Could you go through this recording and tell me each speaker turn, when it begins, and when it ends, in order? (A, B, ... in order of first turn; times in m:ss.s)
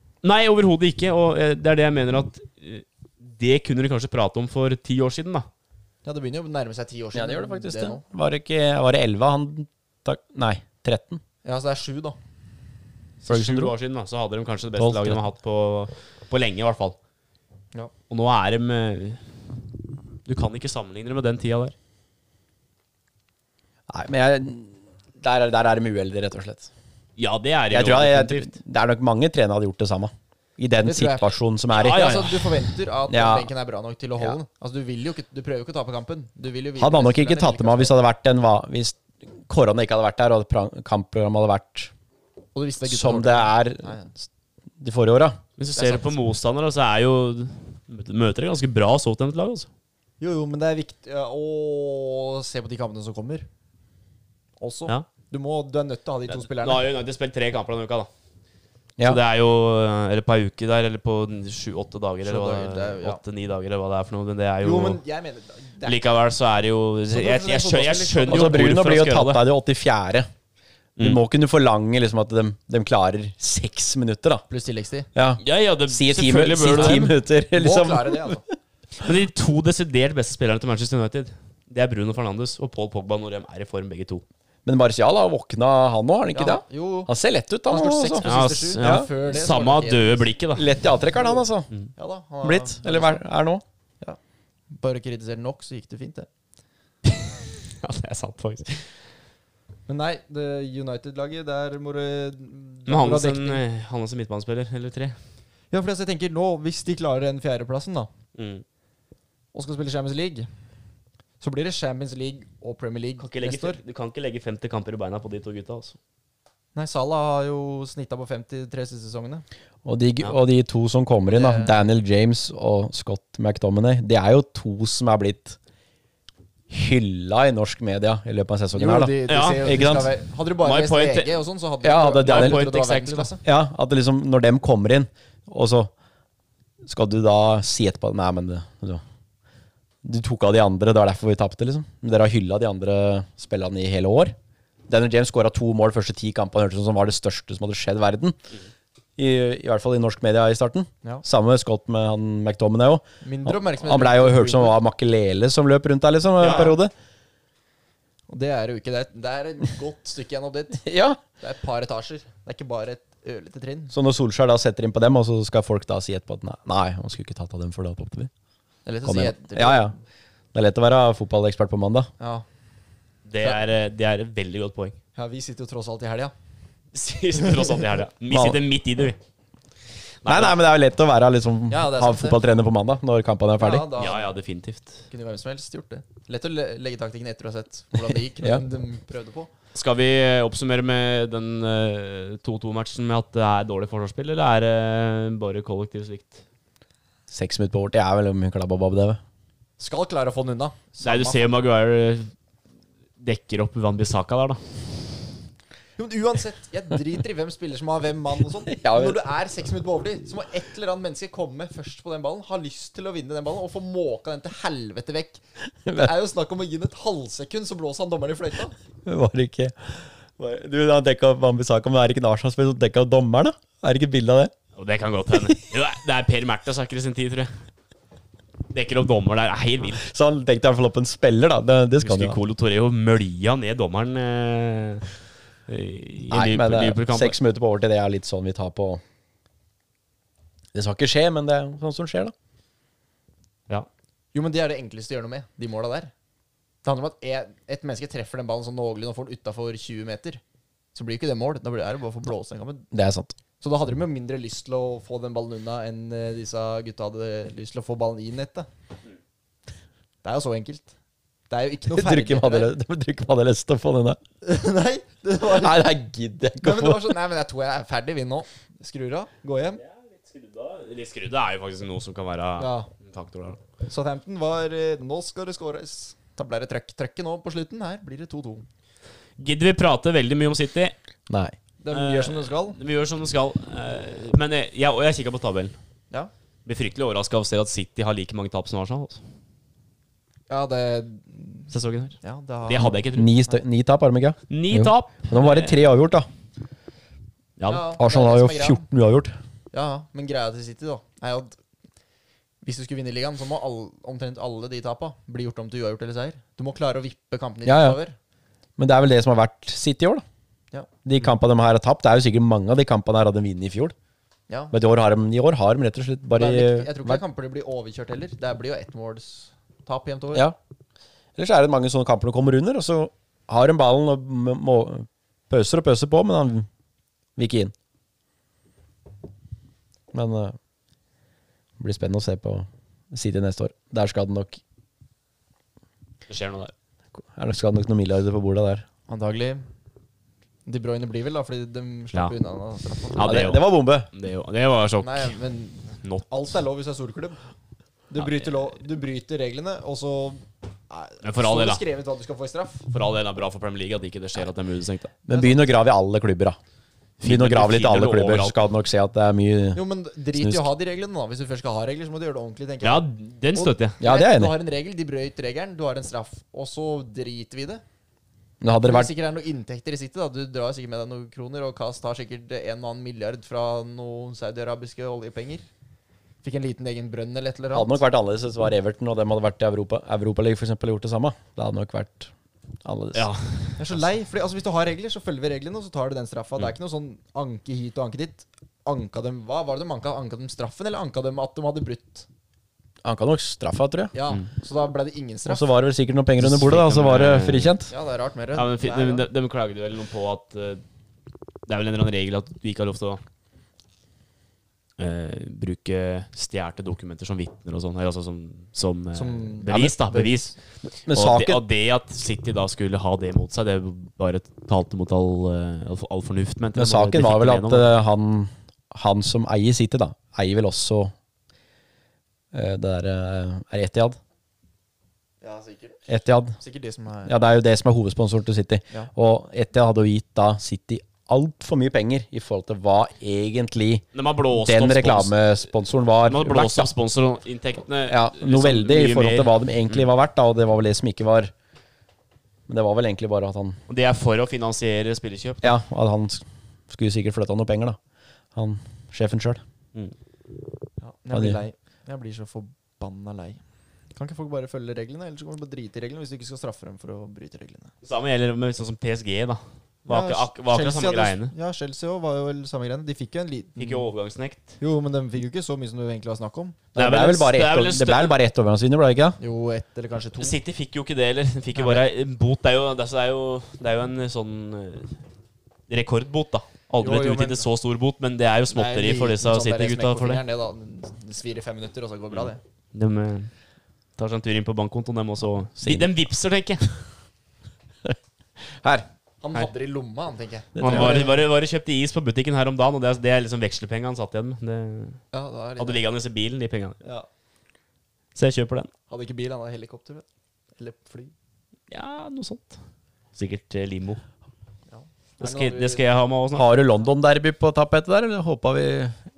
0:00.2-0:05.5 A
0:06.0-0:08.0 B
0:07.1-0:11.2 C
0:11.4-0:12.2 B
0:13.2-0:17.0 A
0:13.3-0:13.7 C
0:14.8-0:15.2 C
0:18.1-0:19.4 A
0:20.2-0:21.7 A
0:23.9-0:26.7 C
0:27.2-0:28.6 A
0:27.7-0:32.4 C
0:30.8-0:37.9 B
0:31.7-0:32.5 A
0:33.1-0:33.5 C
0:36.8-0:41.9 C
0:42.6-0:44.1 B
0:42.8-0:44.0 C
0:44.8-0:45.4 C
0:45.6-0:49.7 A
0:45.8-0:46.1 B
0:50.2-0:53.5 B
0:54.6-0:56.9 B
0:56.3-0:58.1 A
0:59.0-1:05.0 A
1:02.2-1:03.2 B
1:04.6-1:06.0 B
1:05.8-1:09.4 A
1:07.1-1:08.7 B
1:08.3-1:10.3 C
1:11.0-1:14.4 C
1:14.5-1:15.1 B
1:15.1-1:18.4 C
1:15.4-1:17.1 A
1:16.6-1:18.4 B
1:19.0-1:24.2 A
1:24.6-1:29.1 C
1:26.3-1:27.1 B
1:27.7-1:30.3 B
1:28.2-1:30.7 A
1:30.6-1:31.7 C
1:32.0-1:33.2 B
1:32.4-1:33.6 C
1:34.7-1:36.3 B
1:37.0-1:38.9 A
1:39.9-1:43.6 B
1:42.9-1:45.2 A
1:45.7-1:48.1 B
1:48.4-1:48.6 A
1:49.5-1:50.5 B
1:51.4-1:53.8 B
1:53.2-1:56.0 A
1:56.7-1:59.4 B
1:59.8-2:05.6 C
2:01.3-2:01.8 B
2:06.7-2:10.1 C
2:08.7-2:13.4 B
2:09.3-2:09.9 A
2:10.6-2:11.3 A
2:11.8-2:12.6 C
2:12.2-2:13.3 A
2:13.4-2:15.9 C
2:16.8-2:19.0 C
2:20.0-2:24.4 C
2:24.9-2:28.4 C
2:29.2-2:36.9 C
2:33.2-2:34.8 B
2:36.4-2:36.8 B
2:36.4-2:36.7 A
2:38.3-2:40.9 B
2:40.8-2:41.2 C
2:41.4-2:43.9 B
2:43.9-2:48.3 C
2:48.9-2:50.0 B
2:49.0-2:49.9 C
2:50.5-2:52.1 C
2:52.2-2:52.4 B
2:53.2-2:55.0 A
2:55.2-2:56.3 B
2:56.9-2:59.2 A
2:58.3-2:58.6 C
3:00.2-3:00.6 A
3:00.2-3:03.9 C
3:01.7-3:02.4 B
3:03.6-3:04.3 B
3:04.0-3:05.0 A
3:05.1-3:09.5 B
3:09.7-3:16.4 A
3:17.3-3:19.2 C
3:19.8-3:21.6 B
3:21.0-3:22.3 A
3:23.2-3:24.6 A
3:26.0-3:35.4 B
3:28.7-3:29.2 C
3:35.8-3:36.1 C
3:35.9-3:38.8 B
3:39.0-3:44.5 C
3:44.8-3:47.5 A
3:48.7-3:50.0 A
3:50.0-3:52.4 C
3:52.0-3:55.1 A
3:55.7-3:57.4 A
3:56.3-3:59.0 C
4:00.7-4:02.3 C
4:04.3-4:06.1 B
4:06.8-4:10.4 B
4:10.9-4:12.9 B
4:12.9-4:13.4 C
4:13.6-4:18.7 B
4:20.2-4:20.9 B
4:21.5-4:22.7 B
4:21.9-4:24.2 C
4:24.4-4:25.9 B
4:25.4-4:27.2 C
4:26.6-4:29.8 B
4:29.8-4:33.6 A
4:32.6-4:32.9 B
4:33.9-4:38.6 B
4:39.4-4:40.9 A
4:41.3-4:41.6 C
4:41.8-4:42.8 B
4:41.9-4:45.8 A
4:46.6-4:49.2 A
4:50.5-4:51.7 B
4:51.7-4:53.3 A
4:52.2-4:53.6 B
4:52.8-4:56.3 C
4:54.5-4:55.9 A
4:57.6-4:57.8 A
4:57.7-4:58.8 B
4:58.0-4:59.4 C
4:59.7-5:01.6 B
5:02.6-5:08.2 B
5:07.6-5:08.0 C
5:08.8-5:10.2 C
5:11.0-5:13.9 C
5:14.5-5:14.7 B
5:14.7-5:17.2 C
5:16.3-5:20.5 B
5:21.4-5:26.7 C
5:27.4-5:27.7 C
5:30.1-5:30.6 C
5:31.8-5:34.6 C
5:36.3-5:36.7 A
5:37.2-5:38.8 C
5:39.1-5:39.6 B
5:40.6-5:43.4 B
5:43.1-5:45.4 A
5:43.2-5:44.1 C
5:45.0-5:47.4 B
5:46.0-5:46.3 A
5:48.1-5:52.9 B
5:48.2-5:48.4 A
5:51.2-5:51.8 A
5:52.9-5:55.1 A
5:55.3-5:55.7 B
5:55.3-5:56.6 C
5:57.2-5:58.6 A
5:57.2-5:59.8 C
5:59.7-6:07.8 B
6:00.3-6:00.7 C
6:02.8-6:04.0 A
6:04.0-6:04.6 C
6:08.6-6:09.1 C
6:08.8-6:15.6 B
6:16.4-6:18.0 B
6:17.7-6:22.3 C
6:22.8-6:23.3 C
6:23.1-6:23.8 A
6:23.8-6:32.2 B
6:33.0-6:34.1 C
6:34.1-6:35.7 B
6:35.4-6:37.9 C
6:36.4-6:37.8 A
6:37.9-6:39.2 B
6:38.5-6:40.8 A
6:41.7-6:43.2 A
6:45.0-6:50.6 A
6:49.1-6:50.3 B
6:49.6-6:50.0 C
6:51.1-6:51.6 C
6:51.1-6:57.9 A
6:56.7-7:01.1 C
7:02.5-7:04.2 C
7:05.4-7:06.0 B
7:06.1-7:06.6 C
7:06.6-7:07.3 B
7:07.2-7:16.9 C
7:14.1-7:15.4 A
7:16.2-7:20.0 A
7:18.1-7:21.5 C
7:22.7-7:23.8 C
7:23.9-7:25.7 A
7:25.6-7:28.0 C
7:28.6-7:29.6 C
7:31.0-7:33.6 B
7:31.3-7:31.6 C
7:34.1-7:37.9 B
7:38.0-7:41.5 A
7:40.1-7:44.1 B
7:43.8-7:44.8 A
7:44.8-7:46.9 B
7:46.9-7:48.4 A
7:46.9-7:49.4 C
7:49.4-7:50.6 B
7:50.4-7:55.2 A
7:51.7-7:52.0 B
7:55.9-8:00.4 A
7:57.0-7:57.7 B
7:58.7-8:02.6 B
8:02.3-8:03.5 A
8:04.2-8:07.0 A
8:05.8-8:06.1 C
8:08.7-8:09.1 C
8:09.4-8:11.4 B
8:10.8-8:11.3 C
8:10.8-8:15.2 A
8:15.3-8:16.0 B
8:15.8-8:17.0 A
8:18.4-8:18.9 A
8:19.1-8:20.2 B
8:20.8-8:21.3 B
8:21.9-8:22.8 A
8:23.4-8:24.2 A
8:24.9-8:26.0 B
8:25.4-8:26.7 A
8:26.6-8:29.2 C